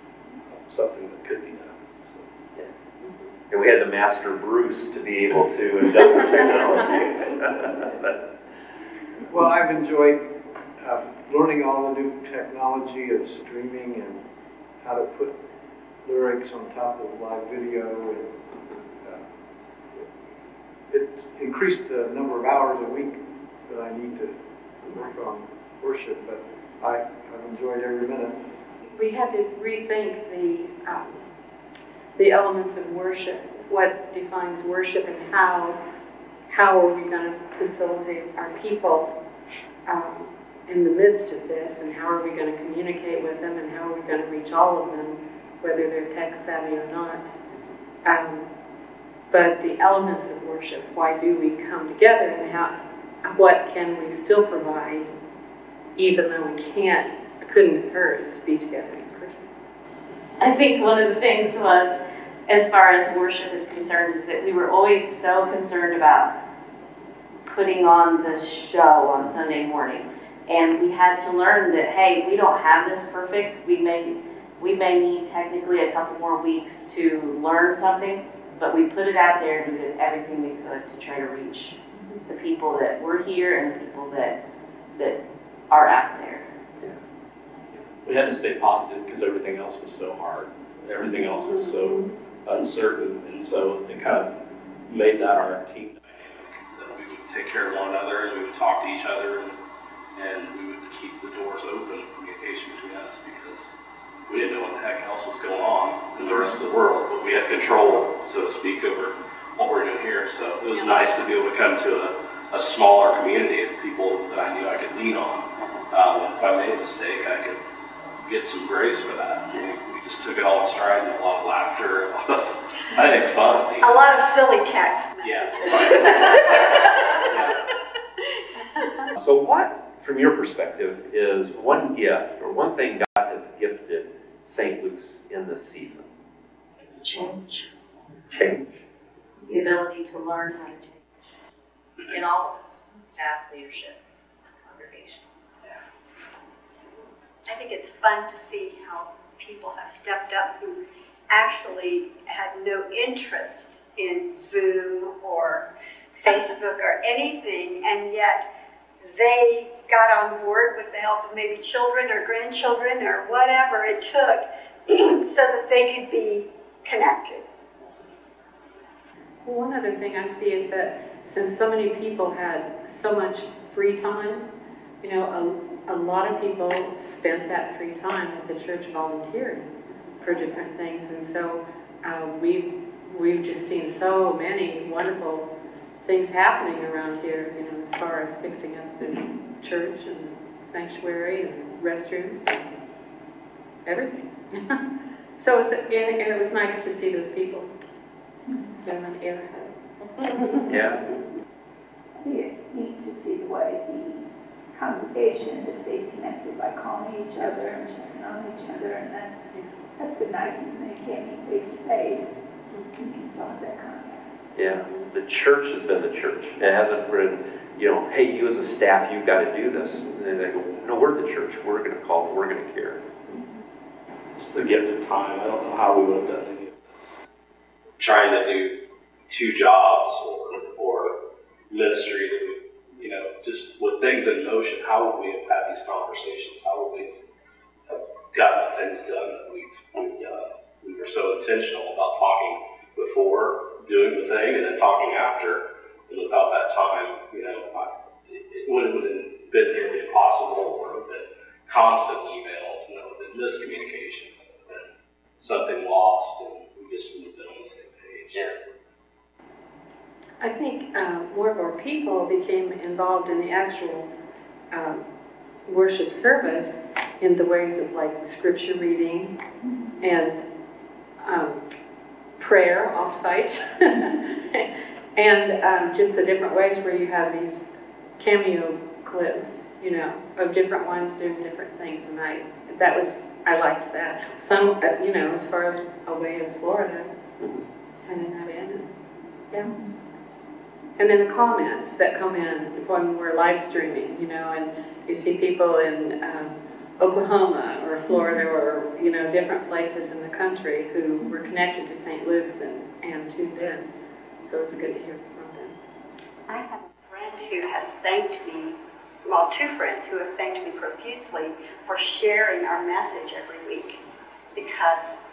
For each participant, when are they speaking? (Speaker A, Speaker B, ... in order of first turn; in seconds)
Speaker A: 0.5-2.2, 88.0-94.3, 94.9-99.6, 100.1-103.7, 104.3-117.6, 118.2-124.0, 125.2-127.6, 136.9-137.6, 224.4-227.2, 228.0-231.2, 231.7-237.2, 237.9-258.6
Speaker B: 3.5-8.2, 129.2-136.1, 138.3-138.7, 200.7-201.1, 214.6-223.1
Speaker C: 9.3-10.3, 10.8-14.2, 14.8-15.4, 16.0-18.4, 19.0-19.3, 20.9-24.3, 24.9-28.4
Speaker D: 28.8-31.3, 32.2-35.8, 36.5-39.1, 39.9-47.3, 48.0-48.5, 49.3-55.1, 56.0-59.5, 91.8-92.1, 128.8-129.1, 169.4-174.5, 175.0-185.5, 186.1-192.7, 193.9-194.8, 195.4-197.7, 198.8-200.8, 212.7-213.0, 260.4-264.1, 264.7-265.1, 265.7-269.3, 270.0-270.4, 271.2-271.6, 272.4-277.7, 278.2-287.1, 287.9-288.9, 291.0-303.9, 304.4-305.8
Speaker E: 60.4-66.3, 67.5-81.8, 82.3-84.4, 84.9-85.2, 85.7-86.5, 139.5-141.2, 142.1-144.0, 144.7-145.2
Speaker F: 123.8-127.6, 147.5-158.5, 159.0-167.4, 306.5-314.0, 314.6-315.1
Speaker G: 202.2-212.4, 213.0-214.3, 269.6-270.0, 298.1-298.4